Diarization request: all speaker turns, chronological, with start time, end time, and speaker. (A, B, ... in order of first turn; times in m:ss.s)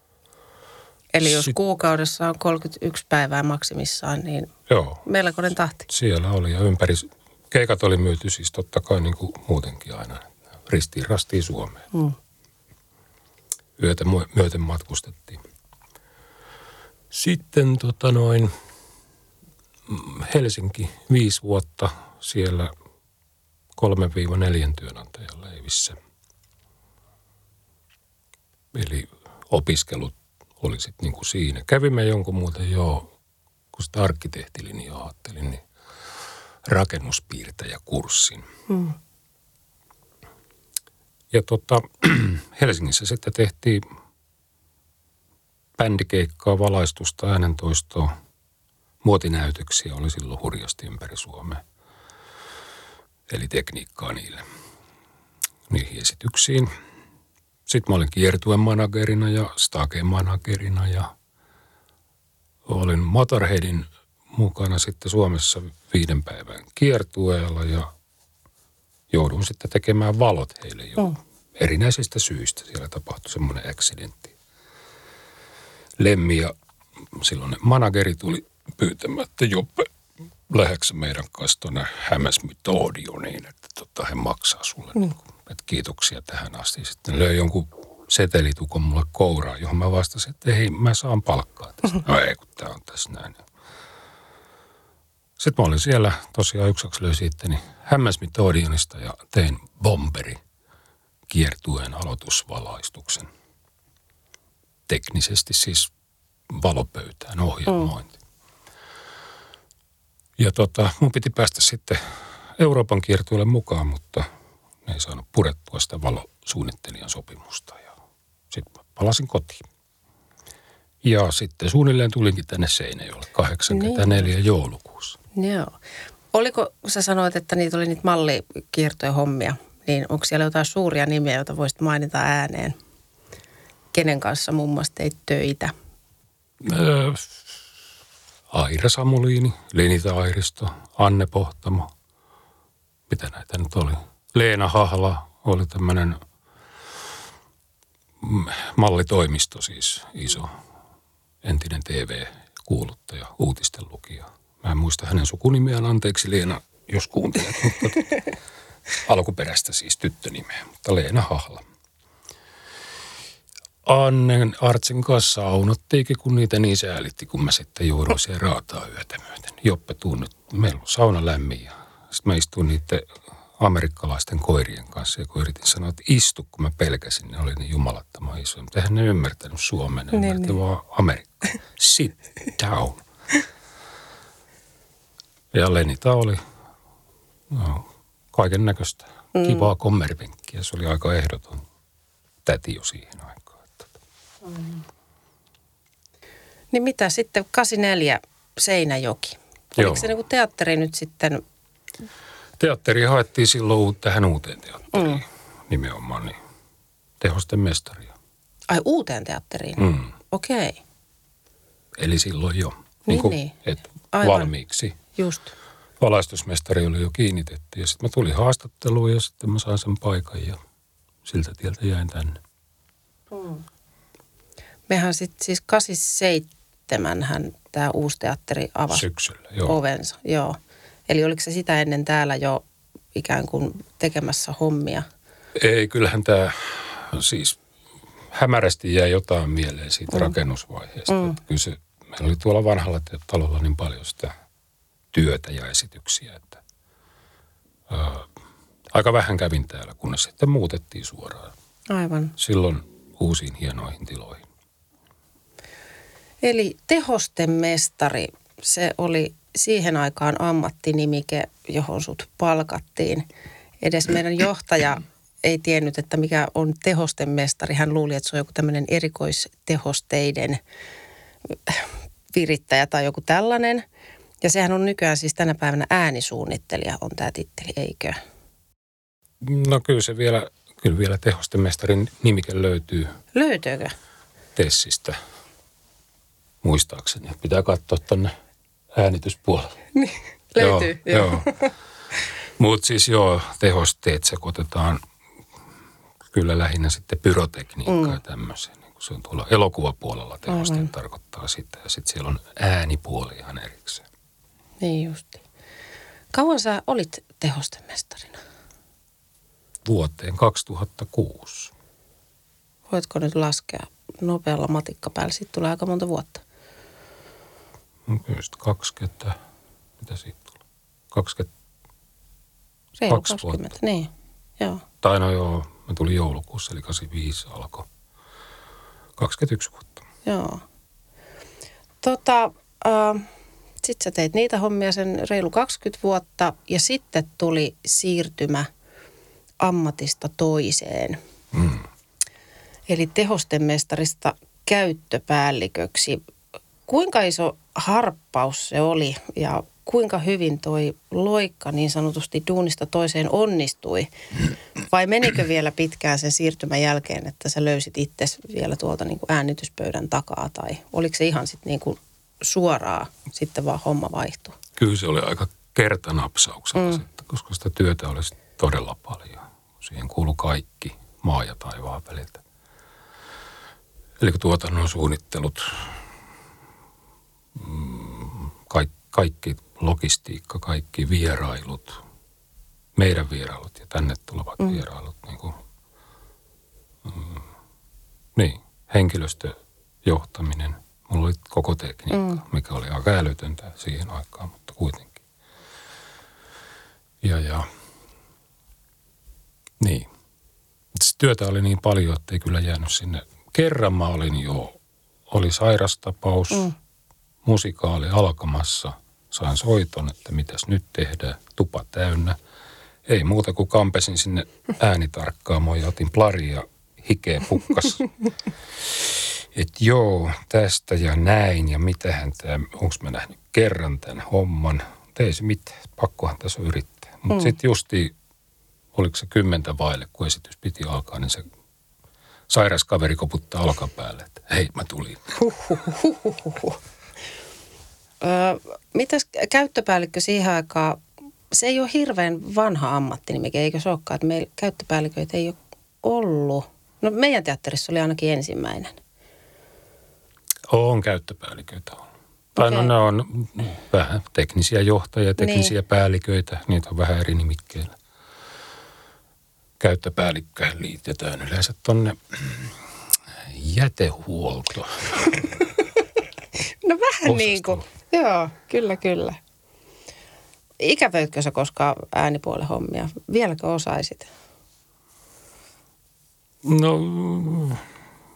0:01.1-0:04.5 A
0:01.2-0:01.6 B
0:04.7-0:05.0 B
0:05.0-0:05.9 A
0:05.9-0:11.8 B
0:13.8-0:15.4 B
0:17.1-0:18.5 B
0:19.9-0:22.7 B
0:23.8-0:26.0 B
0:28.7-0:33.1 B
0:33.7-0:35.6 B
0:36.7-0:38.5 B
0:38.7-0:39.0 A
0:41.3-0:43.8 B
0:45.8-0:48.1 B
0:49.0-0:51.6 B
0:53.3-0:54.4 B
0:55.7-0:56.7 B
0:57.7-1:01.1 B
1:02.7-1:07.9 B
1:09.1-1:14.3 B
1:16.0-1:16.5 B
1:17.1-1:19.9 B
1:20.5-1:33.4 B
1:35.4-1:40.4 B
1:41.3-1:43.3 B
1:44.9-1:45.9 B
1:46.5-1:48.2 B
1:47.7-1:47.9 A
1:50.4-1:52.0 B
1:52.6-1:54.3 B
1:54.9-1:58.0 B
1:58.5-1:59.6 B
2:01.0-2:05.2 B
2:03.7-2:04.3 A
2:05.4-2:05.8 A
2:06.3-2:12.8 A
2:13.9-2:15.7 A
2:16.6-2:17.4 B
2:18.5-2:21.9 B
2:23.1-2:26.2 B
2:28.2-2:30.5 B
2:31.4-2:38.2 B
2:39.0-2:41.6 B
2:43.8-3:03.0 B
3:00.1-3:00.6 A
3:05.5-3:06.4 B
3:07.5-3:11.6 B
3:09.3-3:09.7 A
3:12.4-3:13.9 B
3:16.7-3:21.4 A
3:19.8-3:20.1 B
3:22.6-3:26.4 B
3:24.9-3:25.2 A
3:27.2-3:28.1 B
3:28.7-3:30.8 A
3:29.8-3:30.1 B
3:32.0-3:35.0 B
3:33.1-3:33.6 A
3:34.1-3:34.5 A
3:35.1-3:35.5 A
3:36.0-3:40.6 B
3:41.2-3:42.4 B
3:43.3-3:43.6 A
3:44.9-3:49.1 A
3:48.9-3:49.8 B
3:49.6-3:52.6 A
3:53.2-3:55.1 A
3:55.6-3:57.6 B
3:58.3-4:04.3 B
4:01.1-4:01.4 A
4:05.1-4:06.6 B
4:07.9-4:08.3 B
4:08.9-4:11.5 B
4:11.9-4:12.4 A
4:12.4-4:14.5 B
4:16.4-4:23.3 A
4:23.8-4:30.6 A
4:31.7-4:33.8 A
4:34.4-4:38.2 A
4:39.4-4:43.1 B
4:43.3-4:43.9 A
4:44.6-4:45.2 B
4:46.6-4:48.3 B
4:48.9-4:49.7 B
4:50.0-4:51.7 A
4:50.6-4:51.6 B
4:52.6-4:55.0 B
4:56.3-5:04.0 B
4:57.9-4:58.2 A
5:00.5-5:00.9 A
5:04.8-5:05.4 A
5:06.3-5:08.4 A
5:09.8-5:11.7 B
5:12.9-5:16.4 A
5:18.1-5:19.4 B
5:20.0-5:20.5 B
5:21.1-5:21.5 B
5:23.0-5:24.8 A
5:23.1-5:23.6 B
5:25.0-5:27.9 B
5:29.2-5:30.0 B
5:30.2-5:30.6 A
5:32.0-5:33.3 A
5:33.8-5:38.7 A
5:39.6-5:41.2 A
5:41.5-5:41.8 B
5:42.9-5:46.2 A
5:46.9-5:54.1 A
5:54.8-6:04.6 A
6:04.8-6:12.4 B
6:06.8-6:07.0 A
6:14.2-6:16.0 B
6:17.6-6:22.0 B
6:23.0-6:25.6 B
6:27.0-6:27.4 B
6:28.4-6:35.2 B
6:32.1-6:32.4 A
6:37.2-6:37.7 B
6:39.8-6:40.1 B
6:41.0-6:44.8 B
6:45.3-6:46.7 B
6:47.4-6:52.4 B
6:53.1-6:58.1 B
6:58.8-7:08.1 B
7:09.0-7:11.4 B
7:12.5-7:15.4 B
7:15.4-7:16.8 A
7:18.2-7:29.0 A
7:30.7-7:32.0 B
7:32.6-7:32.9 A
7:32.6-7:38.0 B
7:35.4-7:35.7 A
7:39.8-7:42.8 B
7:43.4-7:45.6 B
7:46.6-7:49.4 A
7:47.2-7:47.8 B
7:50.8-7:54.3 A
7:56.6-7:57.8 B